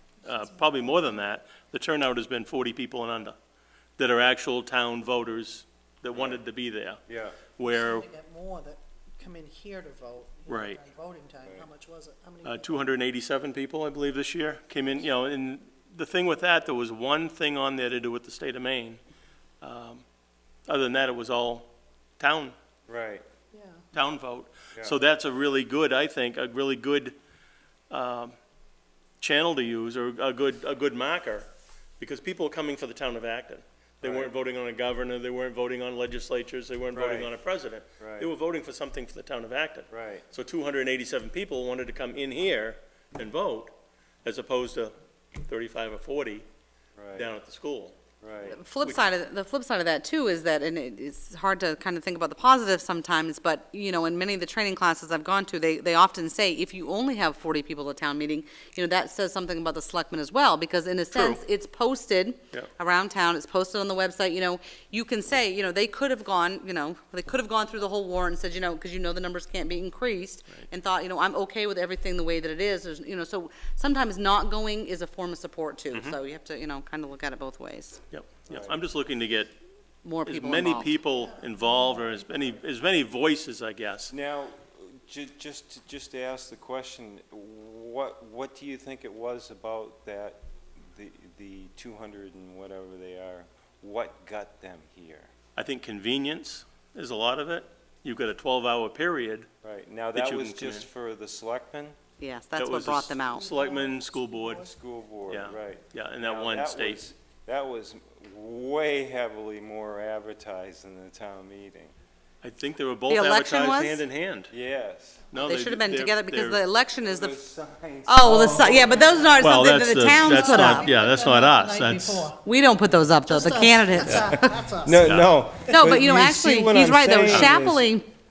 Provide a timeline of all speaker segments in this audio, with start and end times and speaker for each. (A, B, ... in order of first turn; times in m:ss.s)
0:00.2-0:03.4 A
0:00.3-0:00.7 B
0:04.0-0:07.0 A
0:06.1-0:06.4 C
0:07.1-0:07.4 C
0:07.6-0:08.1 A
0:07.6-0:12.8 B
0:10.5-0:10.8 A
0:12.4-0:19.0 A
0:19.6-0:20.0 A
0:20.7-0:21.7 A
0:22.2-0:22.6 A
0:22.9-0:23.2 C
0:23.5-0:23.8 B
0:23.9-0:27.2 A
0:27.9-0:28.4 A
0:29.2-0:46.4 A
0:34.0-0:34.3 C
0:36.9-0:37.3 C
0:38.0-0:38.3 C
0:39.9-0:40.3 C
0:47.0-0:47.3 C
0:47.1-0:48.0 A
0:48.2-0:48.6 C
0:48.5-1:18.0 D
0:48.8-0:49.1 A
1:01.1-1:01.4 A
1:18.1-1:19.5 A
1:18.5-1:18.8 C
1:20.0-1:20.9 D
1:20.3-1:24.1 A
1:24.1-1:35.3 C
1:35.6-1:39.5 A
1:39.6-1:42.0 C
1:40.1-1:40.9 A
1:42.2-1:43.5 D
1:42.6-1:44.7 A
1:43.4-1:44.7 B
1:44.6-1:51.9 C
1:45.3-1:47.0 A
1:52.4-1:54.5 A
1:53.1-1:54.0 D
1:54.5-1:55.3 C
1:55.3-1:56.6 A
1:55.4-1:57.4 D
1:57.0-1:59.5 C
1:58.1-2:00.9 D
1:58.8-1:59.3 B
1:59.4-2:02.3 A
2:00.1-2:02.4 B
2:02.4-2:04.4 D
2:03.3-2:05.2 B
2:04.8-2:07.9 C
2:05.0-2:05.3 A
2:05.7-2:08.0 D